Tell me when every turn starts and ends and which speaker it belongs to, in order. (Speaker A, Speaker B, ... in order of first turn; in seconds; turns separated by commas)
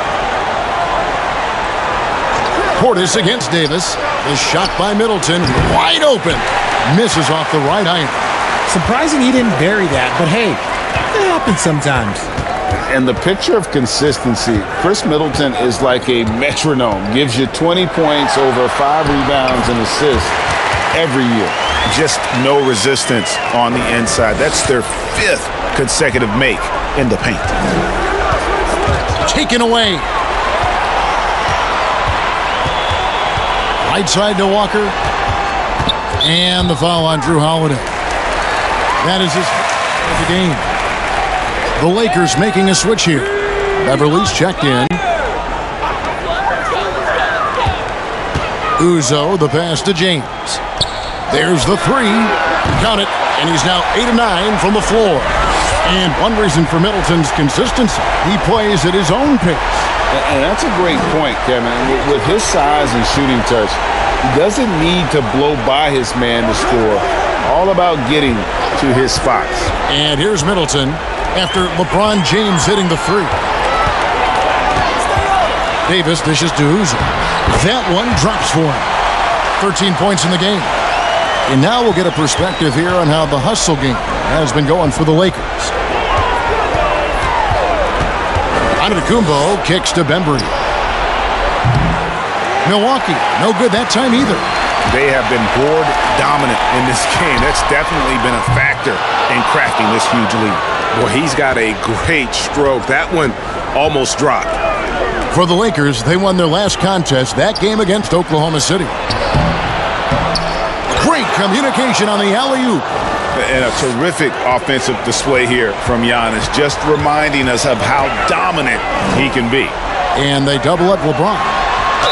Speaker A: 2.8-8.3, Speaker B: 8.7-12.3, Speaker C: 12.9-20.4, Speaker C: 20.9-27.6, Speaker A: 29.2-30.1, Speaker A: 33.8-35.0, Speaker A: 36.2-37.9, Speaker A: 39.0-40.7, Speaker A: 41.8-45.0, Speaker A: 48.8-50.6, Speaker A: 51.3-59.9, Speaker C: 60.1-69.7, Speaker A: 69.9-73.4, Speaker A: 75.9-78.9, Speaker A: 79.6-80.7, Speaker A: 81.5-85.7, Speaker A: 88.8-90.5, Speaker A: 92.6-94.5, Speaker C: 94.9-104.6, Speaker A: 105.3-109.0, Speaker A: 111.0-112.9, Speaker C: 113.3-119.8, Speaker A: 120.2-121.6